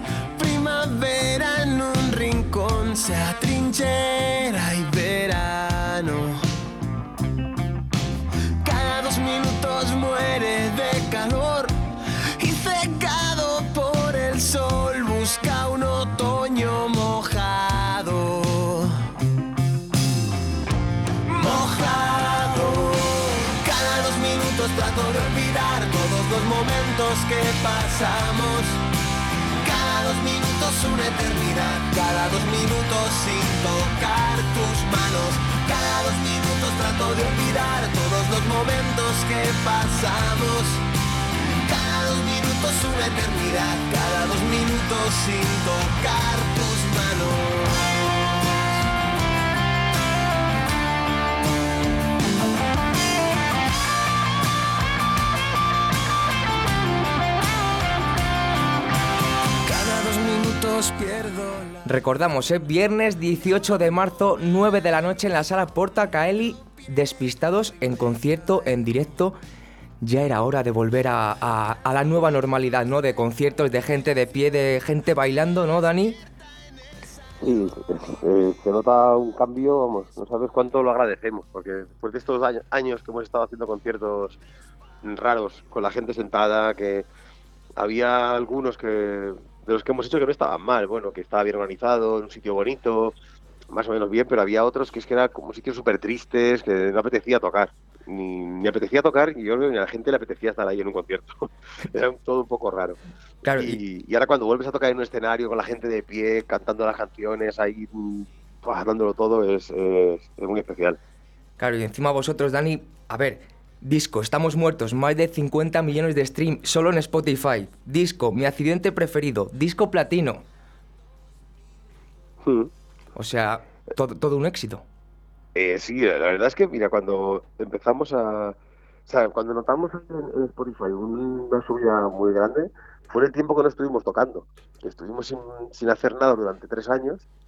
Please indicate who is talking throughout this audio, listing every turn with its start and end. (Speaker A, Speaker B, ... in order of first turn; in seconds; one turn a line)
Speaker A: 0.3-6.5
Speaker A: 8.6-19.1
Speaker A: 21.3-28.8
Speaker A: 29.6-40.8
Speaker A: 41.6-48.1
Speaker A: 59.6-61.8
Speaker B: 61.8-69.3
Speaker B: 70.0-76.2
Speaker C: 77.4-84.4
Speaker C: 85.0-87.1
Speaker C: 87.8-93.2
Speaker C: 93.7-103.0
Speaker B: 103.4-103.8
Speaker C: 103.6-111.0
Speaker B: 111.6-120.4
Speaker C: 122.4-122.7
Speaker B: 123.1-124.8
Speaker C: 125.5-128.6
Speaker C: 129.1-137.2